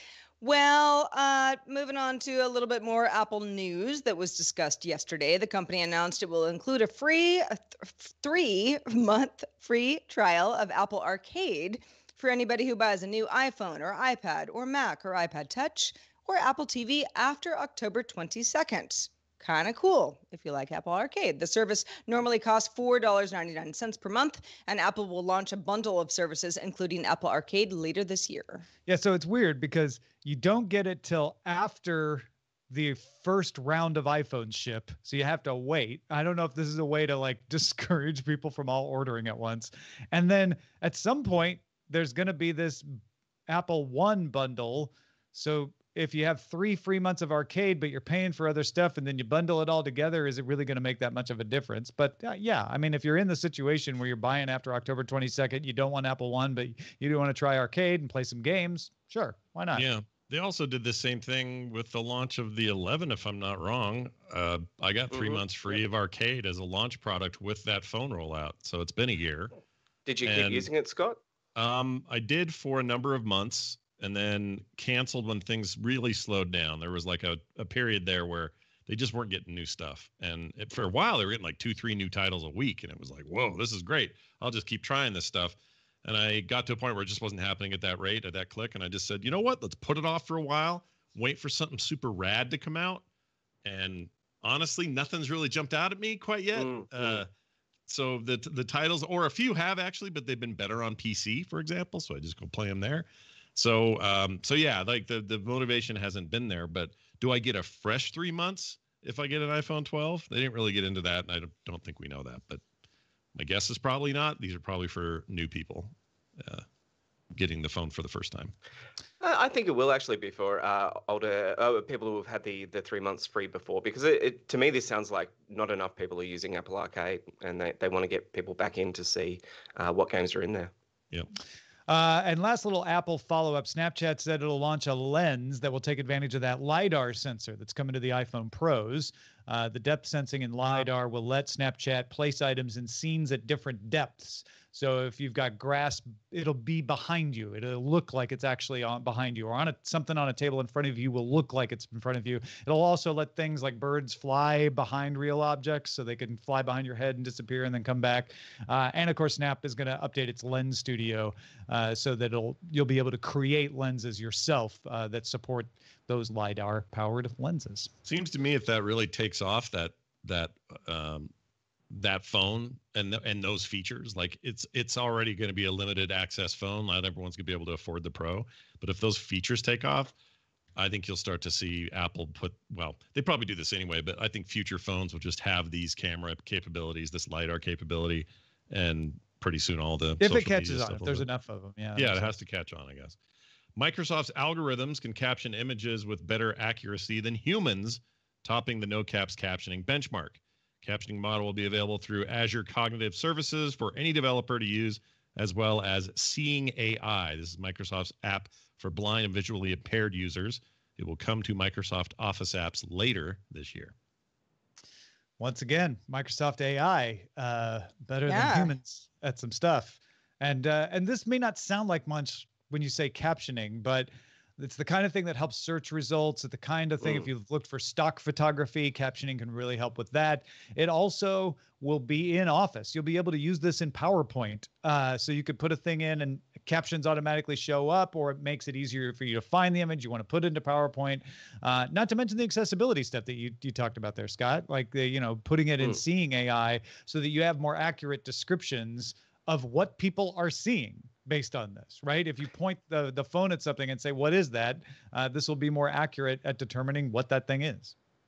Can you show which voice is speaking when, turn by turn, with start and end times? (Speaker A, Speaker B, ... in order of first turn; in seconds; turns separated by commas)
Speaker A: 0.4-28.7, Speaker B: 28.9-43.0, Speaker B: 43.5-59.9, Speaker C: 59.7-69.5, Speaker D: 65.1-65.4, Speaker D: 70.0-71.2, Speaker C: 70.2-70.7, Speaker C: 71.5-93.0, Speaker C: 93.6-97.3, Speaker D: 96.5-97.2, Speaker C: 97.9-112.6, Speaker C: 113.3-116.6, Speaker C: 117.3-118.5, Speaker D: 119.2-130.7, Speaker B: 131.9-167.9, Speaker C: 168.0-171.3, Speaker C: 171.9-180.1, Speaker C: 180.8-191.3, Speaker B: 190.2-192.3, Speaker C: 191.9-193.2, Speaker C: 193.8-213.9, Speaker B: 215.4-257.9, Speaker A: 218.3-218.7